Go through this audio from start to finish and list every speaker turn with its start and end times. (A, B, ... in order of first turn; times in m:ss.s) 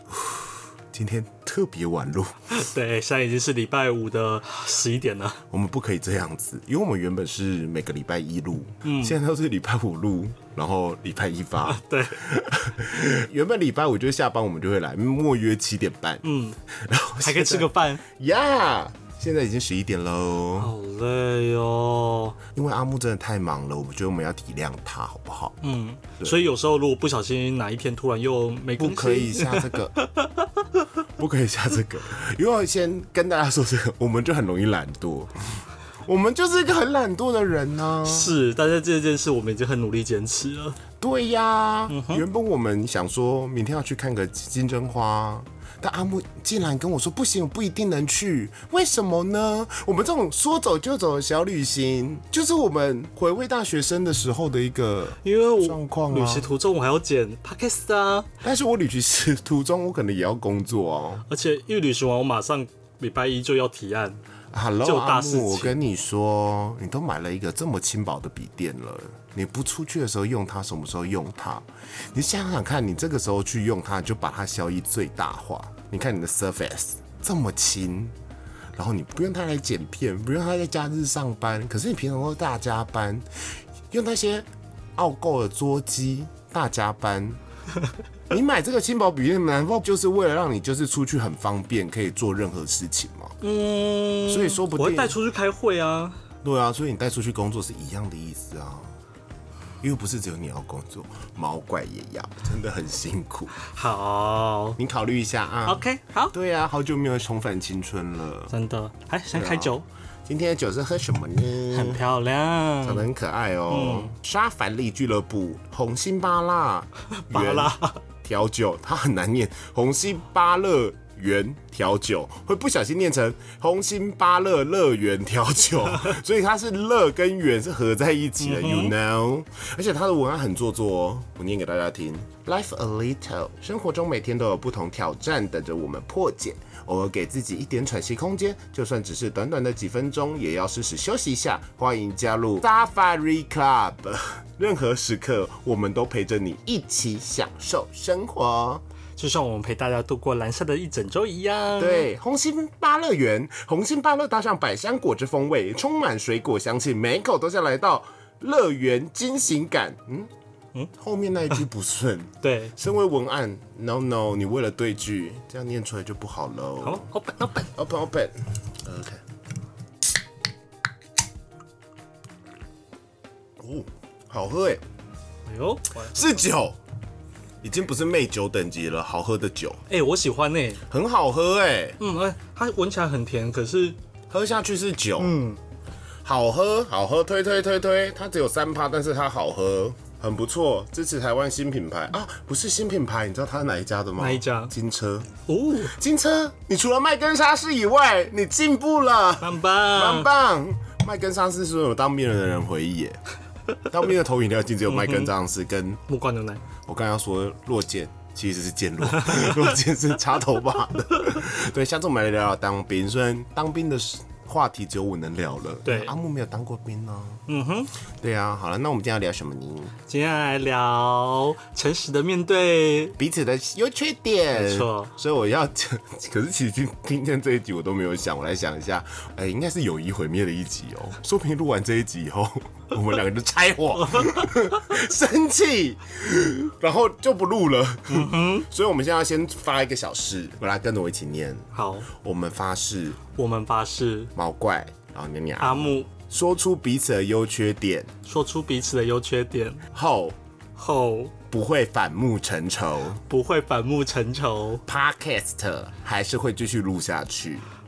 0:00.1-0:02.4 A
0:02.5-0:05.4 B
0:05.5-0:20.7 A
0:08.8-0:09.2 B
0:11.7-0:12.2 B
0:16.2-0:16.6 B
0:17.2-0:18.0 B
0:20.6-0:22.4 B
0:22.6-0:25.6 A
0:25.6-0:30.3 B
0:28.8-0:30.0 A
0:31.2-0:38.3 A
0:38.0-0:40.8 B
0:41.0-0:56.5 A
0:41.9-0:42.2 B
0:55.2-0:58.3 B
0:58.4-1:01.2 A
1:01.3-1:04.2 B
1:04.5-1:18.2 A
1:04.8-1:05.8 B
1:18.8-1:23.3 A
1:23.9-1:27.4 A
1:28.3-1:33.4 A
1:33.4-1:36.2 B
1:34.3-1:35.2 A
1:36.4-1:38.9 A
1:39.8-1:43.5 A
1:43.6-1:44.8 B
1:44.8-1:48.5 A
1:45.7-1:46.3 B
1:48.5-1:49.8 B
1:49.3-1:52.0 A
1:51.7-1:53.1 B
1:52.8-2:28.8 A
1:53.7-1:54.1 B
1:57.3-1:58.0 B
2:08.4-2:08.9 B
2:29.2-2:32.1 B
2:31.8-2:40.3 A
2:41.0-2:47.1 A
2:42.4-2:42.7 B
2:46.8-2:47.7 B
2:47.7-2:49.2 A
2:53.6-2:54.8 A
2:55.5-2:56.4 B
2:56.1-2:56.8 A
2:57.6-2:59.8 A
2:59.9-3:00.8 B
3:00.9-3:02.0 A
3:02.0-3:04.0 B
3:04.3-3:05.4 A
3:05.2-3:05.6 B
3:06.2-3:15.3 A
3:14.2-3:14.7 B
3:15.5-3:16.0 B
3:15.9-3:23.2 A
3:19.4-3:20.3 B
3:23.9-3:26.0 A
3:24.9-3:25.3 B
3:26.1-3:26.6 B
3:26.9-3:37.4 A
3:35.8-3:36.1 B
3:37.5-3:37.9 B
3:38.2-3:39.9 A
3:40.1-3:43.2 B
3:43.2-4:03.2 A
3:44.5-3:45.1 B
3:54.1-3:54.4 B
3:58.1-3:58.7 B
4:01.7-4:02.1 B
4:03.4-4:04.3 B
4:04.4-4:08.1 A
4:05.6-4:06.1 B
4:08.2-4:09.8 B
4:09.9-4:10.4 A
4:10.8-4:11.3 B
4:11.5-4:13.2 A
4:13.3-4:14.8 B
4:14.9-4:17.6 A